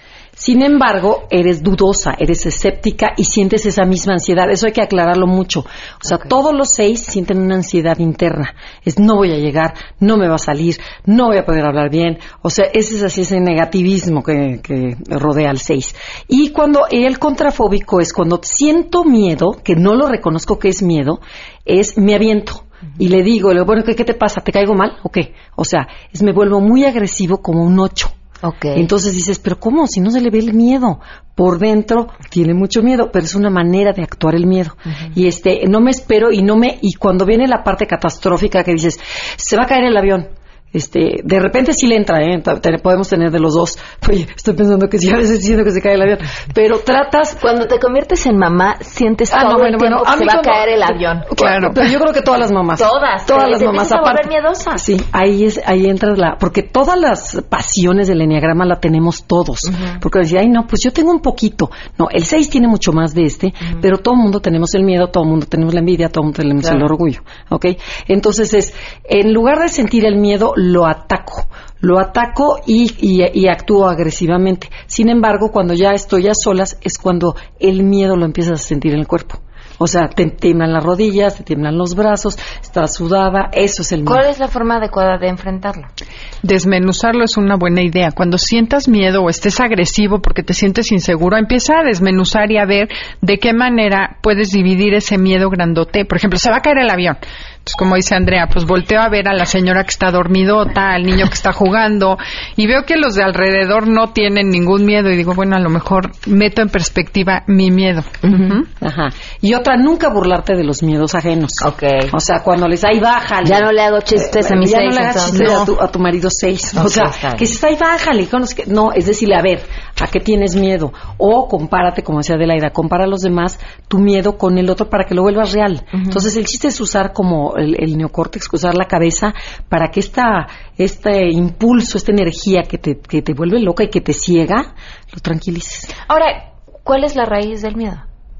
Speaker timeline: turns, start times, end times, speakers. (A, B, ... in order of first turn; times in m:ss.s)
0:00.4-0:28.1 A
0:28.4-0:28.9 B
0:28.8-0:47.4 A
0:47.4-0:51.6 B
0:49.3-1:24.3 A
0:51.4-0:51.9 C
0:52.8-0:54.8 B
0:59.7-1:00.0 B
1:24.0-1:25.9 B
1:26.4-1:48.7 C
1:48.2-1:48.6 B
1:48.8-2:15.9 A
1:51.6-1:52.1 B
1:53.4-1:55.7 B
1:55.3-1:55.7 C
1:56.8-1:57.5 B
2:06.0-2:06.2 B
2:16.1-2:18.0 B